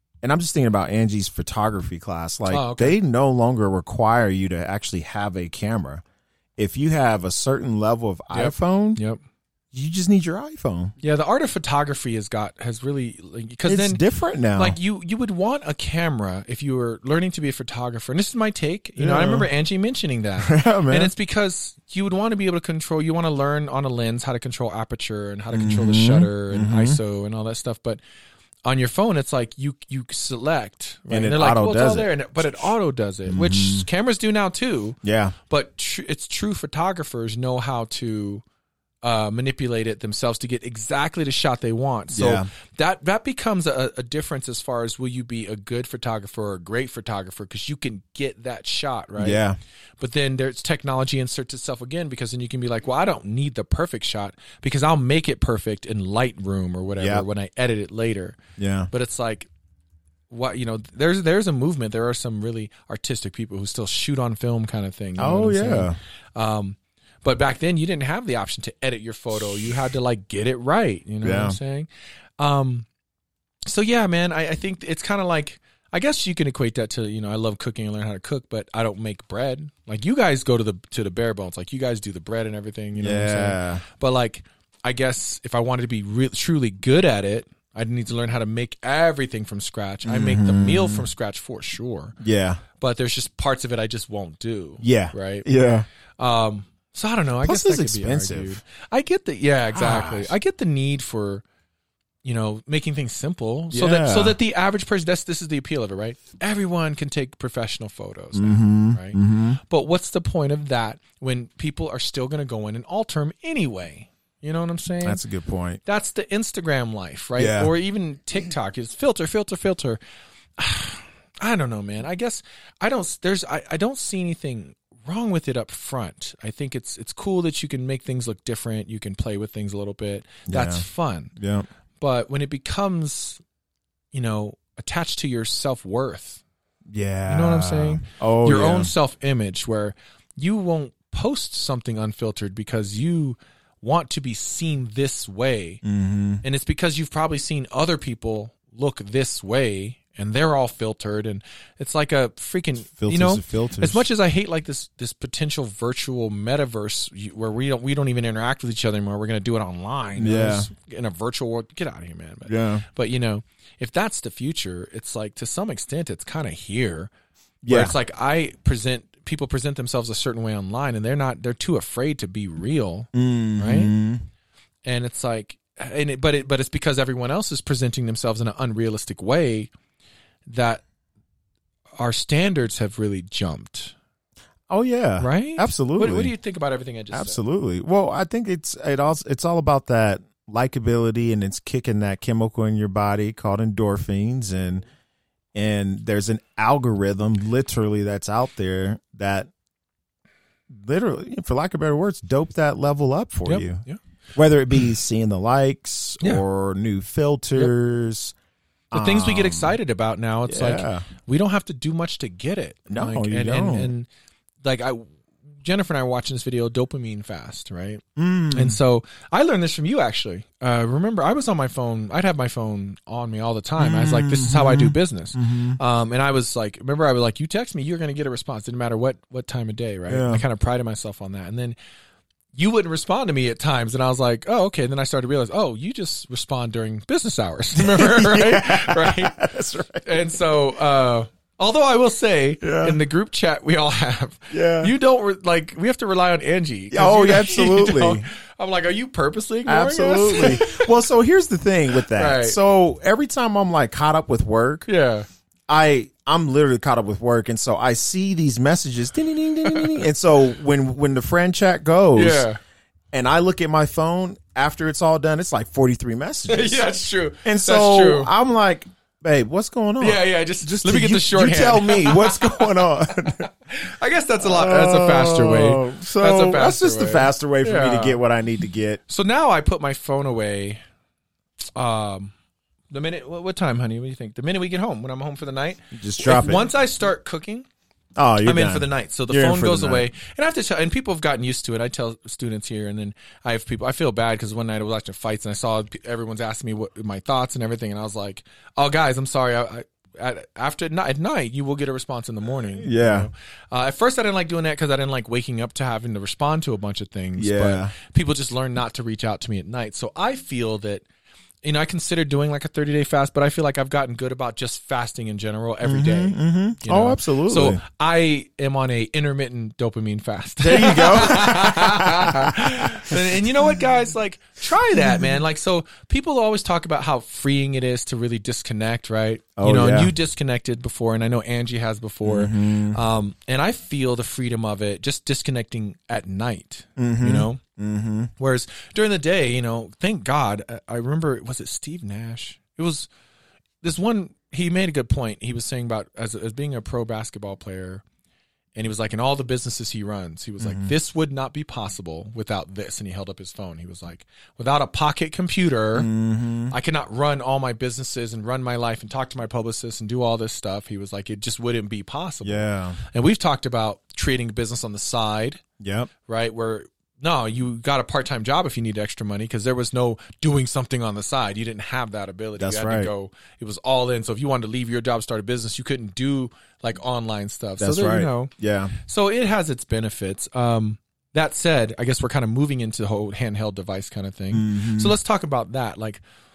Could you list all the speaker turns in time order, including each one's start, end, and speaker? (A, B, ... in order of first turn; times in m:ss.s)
0:00.2-0:06.0 A
0:02.5-0:03.0 B
0:06.6-0:09.0 A
0:08.3-0:09.2 B
0:09.7-0:10.9 A
0:11.0-0:14.0 B
0:13.6-0:14.8 A
0:14.5-0:28.0 B
0:19.0-0:19.5 A
0:20.4-0:21.1 A
0:25.5-0:27.0 A
0:28.6-0:38.4 B
0:31.1-0:32.1 A
0:33.3-0:33.9 A
0:35.0-0:35.4 A
0:39.0-0:49.4 B
0:42.1-0:42.4 A
0:49.2-0:49.6 A
0:50.0-0:58.4 B
0:57.0-0:57.2 A
0:58.6-0:58.9 A
0:58.9-0:59.5 B
1:00.3-1:12.9 B
1:05.2-1:06.0 A
1:11.2-1:11.6 A
1:13.6-1:32.2 B
1:23.0-1:23.8 A
1:30.0-1:31.0 A
1:32.2-1:32.6 A
1:32.8-1:35.6 B
1:34.8-1:35.8 A
1:36.2-1:41.4 B
1:37.4-1:38.6 A
1:39.7-1:40.3 A
1:42.2-1:55.2 B
1:43.7-1:44.4 A
1:48.3-1:49.6 A
1:55.0-1:55.8 A
1:55.8-2:00.0 B
1:57.4-1:57.7 A
2:00.6-2:11.3 B
2:10.5-2:10.8 A
2:11.4-2:11.7 A
2:12.0-2:13.4 B
2:14.1-2:16.4 B
2:16.9-2:18.9 A
2:17.3-2:25.8 B
2:25.8-2:26.4 A
2:26.4-2:47.1 B
2:33.0-2:34.0 A
2:40.2-2:40.7 A
2:42.4-2:42.8 A
2:47.6-2:47.9 A
2:47.7-2:53.9 B
2:53.1-2:54.2 A
2:54.8-2:59.7 B
3:00.4-3:00.8 B
3:02.0-3:03.9 B
3:04.7-3:06.3 A
3:05.2-3:07.4 B
3:07.1-3:14.8 A
3:15.5-3:19.5 A
3:20.7-3:23.8 A
3:23.4-3:24.0 B
3:24.3-3:28.3 A
3:28.9-3:29.8 A
3:28.9-3:34.1 B
3:30.4-3:31.1 A
3:32.9-3:33.9 A
3:34.6-3:35.1 B
3:35.6-3:51.8 B
3:38.2-3:38.8 A
3:43.8-3:45.8 A
3:50.1-3:50.4 A
3:52.5-3:59.4 B
3:57.8-4:00.2 A
4:00.0-4:10.9 B
4:02.6-4:03.0 A
4:04.5-4:04.9 A
4:06.9-4:08.2 A
4:09.6-4:14.9 A
4:12.1-4:12.6 B
4:14.9-4:15.2 B
4:15.7-4:22.4 A
4:22.1-4:22.6 B
4:23.1-4:26.8 A
4:26.5-4:28.3 B
4:27.4-4:33.5 A
4:30.0-4:38.2 B
4:34.4-4:39.0 A
4:39.1-4:40.8 B
4:41.7-4:42.3 B
4:42.9-4:47.7 B
4:45.9-4:46.7 A
4:48.2-4:50.0 A
4:48.4-5:11.0 B
5:02.7-5:03.3 A
5:07.4-5:07.9 A
5:11.6-5:37.6 B
5:15.8-5:17.8 A
5:20.6-5:23.4 A
5:24.9-5:25.4 A
5:29.6-5:30.1 A
5:32.2-5:33.0 A
5:37.0-5:38.3 A
5:38.4-5:43.1 B
5:43.8-5:48.0 B
5:48.8-5:56.1 B
5:50.6-5:50.9 A
5:55.9-5:56.7 A
5:56.7-6:05.6 B
6:02.4-6:03.0 A
6:05.8-6:06.1 A
6:06.2-6:26.2 B
6:12.6-6:13.1 A
6:17.8-6:19.0 A
6:24.5-6:25.1 A